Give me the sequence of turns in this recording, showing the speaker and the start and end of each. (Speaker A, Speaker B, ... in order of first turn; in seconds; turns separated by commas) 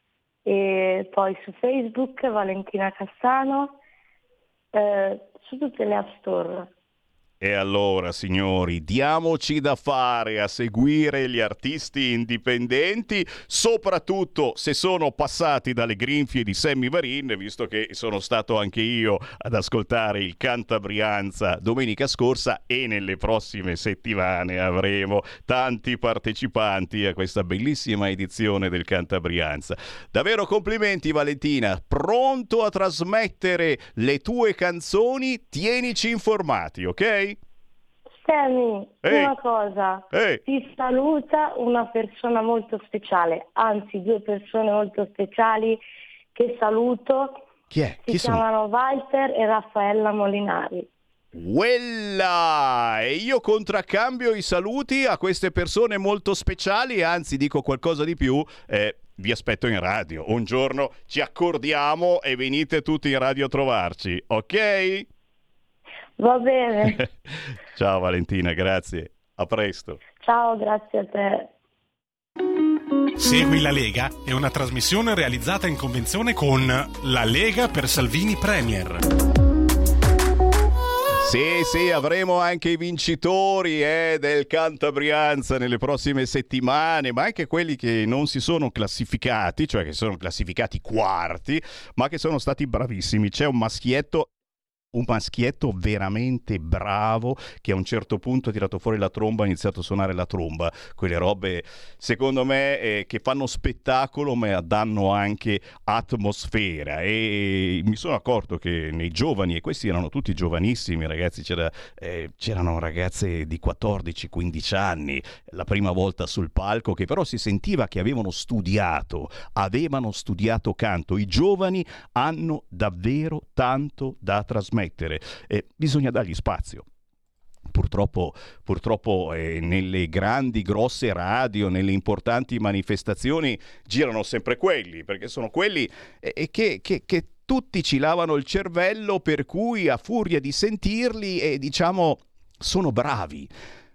Speaker A: 0.4-3.8, Speaker A: 4.7-6.7, Speaker B: 7.4-37.4, Speaker A: 38.2-45.8, Speaker B: 39.0-39.3, Speaker B: 40.1-40.4, Speaker A: 46.3-47.4, Speaker B: 47.7-48.4, Speaker A: 48.0-50.9, Speaker B: 51.3-65.1, Speaker A: 66.2-67.0, Speaker B: 66.9-70.0, Speaker A: 70.2-71.5, Speaker C: 73.2-79.0, Speaker B: 81.1-94.3, Speaker B: 94.9-126.9, Speaker B: 127.7-143.5